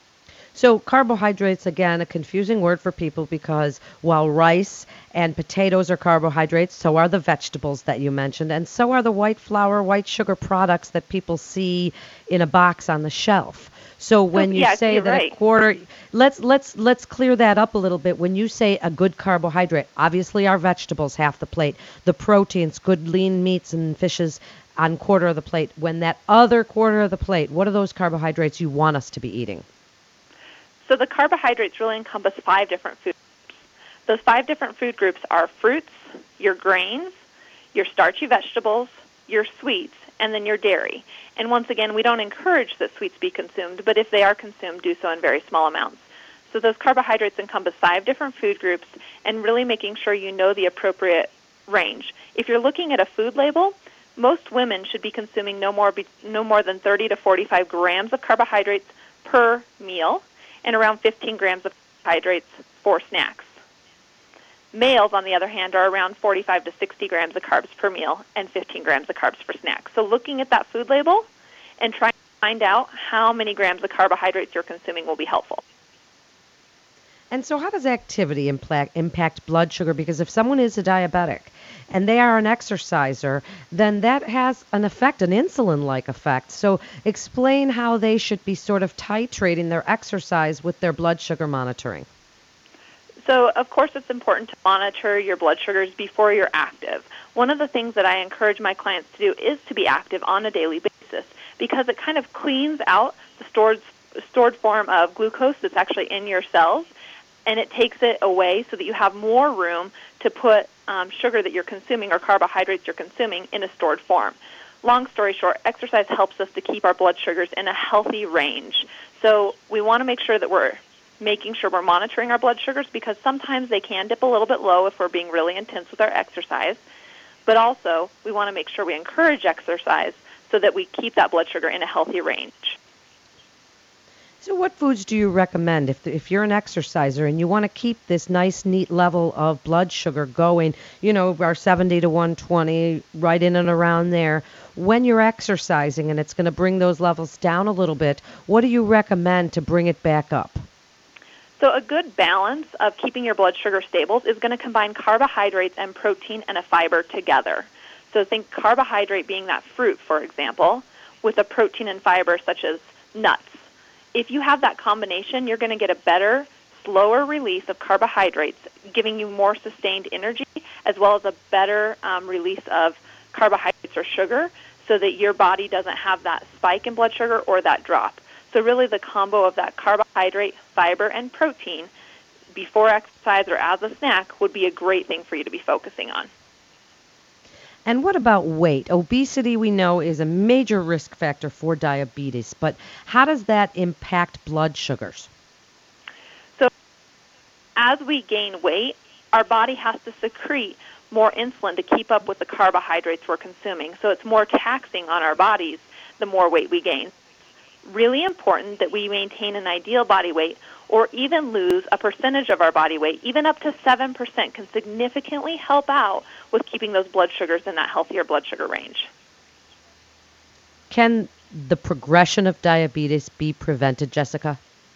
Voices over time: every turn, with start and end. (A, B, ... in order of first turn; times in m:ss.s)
0:00.5-0:29.6 A
0:14.3-0:15.4 B
0:30.8-0:37.1 B
0:37.7-1:03.5 B
1:04.7-1:11.3 B
1:11.8-1:15.6 B
1:17.3-1:32.0 A
1:33.2-1:46.9 B
1:47.4-2:06.8 B
2:07.4-2:12.8 B
2:14.4-2:30.6 A
2:31.6-2:43.6 B
2:44.1-3:01.9 B
3:02.5-3:06.3 B
3:07.8-3:15.3 A
3:17.8-3:27.1 B
3:27.8-3:39.1 B
3:40.9-3:44.6 A